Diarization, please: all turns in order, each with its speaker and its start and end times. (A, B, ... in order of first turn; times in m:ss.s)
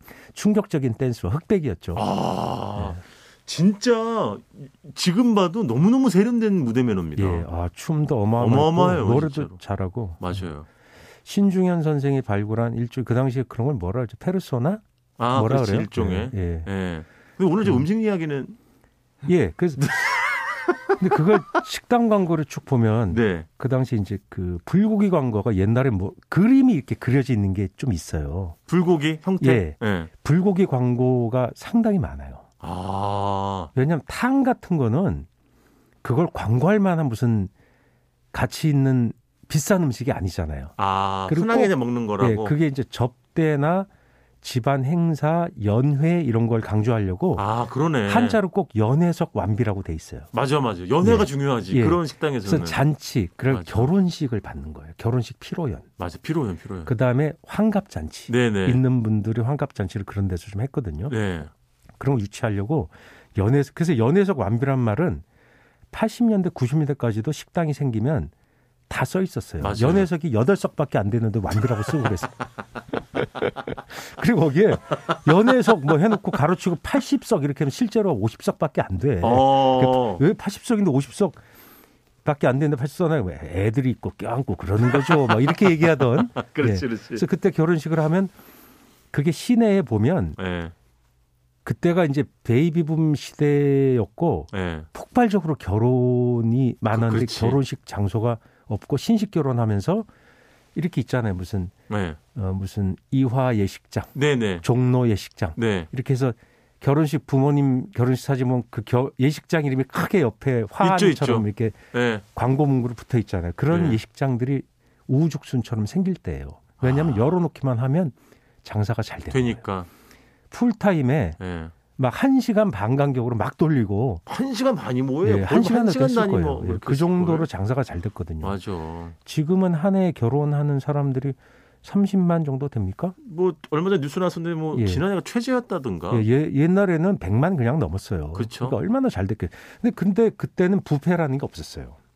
0:00.3-0:02.1 A
0:01.9-0:07.5 B
0:02.8-0:03.0 A
0:07.2-0:10.5 A
0:08.4-0:09.6 B
0:10.2-0:10.7 B
0:11.2-0:16.7 A
0:15.2-0:18.6 B
0:19.2-0:20.1 A
0:19.8-0:21.4 B
0:21.0-0:28.6 A
0:23.1-0:23.5 B
0:28.7-0:30.1 B
0:29.4-0:32.4 A
0:32.6-0:33.7 B
0:33.7-0:35.3 A
0:36.0-0:37.5 A
0:38.3-0:40.7 A
0:40.8-0:42.6 B
0:41.3-0:43.9 A
0:44.4-0:47.4 A
0:47.4-0:48.4 B
0:48.0-0:50.3 A
0:50.3-0:52.8 B
0:51.0-0:55.9 A
0:53.5-0:53.9 B
0:56.0-0:56.9 B
0:56.8-1:01.1 A
0:58.3-0:58.8 B
1:01.1-1:01.5 B
1:02.0-1:05.2 A
1:05.9-1:08.3 A
1:08.9-1:12.5 A
1:09.6-1:10.1 B
1:13.0-1:21.4 A
1:19.2-1:20.2 B
1:22.2-1:28.3 A
1:24.8-1:27.2 B
1:29.1-1:30.4 A
1:30.4-1:30.7 B
1:31.6-1:40.1 A
1:34.5-1:34.9 B
1:36.9-1:37.6 B
1:40.7-1:41.7 A
1:41.9-1:42.2 B
1:42.3-1:51.8 A
1:44.1-1:44.6 B
1:45.6-1:45.9 B
1:50.8-1:52.2 B
1:52.3-1:59.6 A
1:53.7-1:54.0 B
1:56.8-1:57.4 B
1:59.3-1:59.9 B
2:00.5-2:01.4 A
2:01.4-2:01.7 B
2:02.0-2:04.2 A
2:04.2-2:07.5 B
2:05.2-2:08.6 A
2:08.4-2:09.1 B
2:09.2-2:13.1 A
2:13.2-2:16.3 B
2:14.7-2:15.0 A
2:16.1-2:22.0 A
2:18.3-2:18.8 B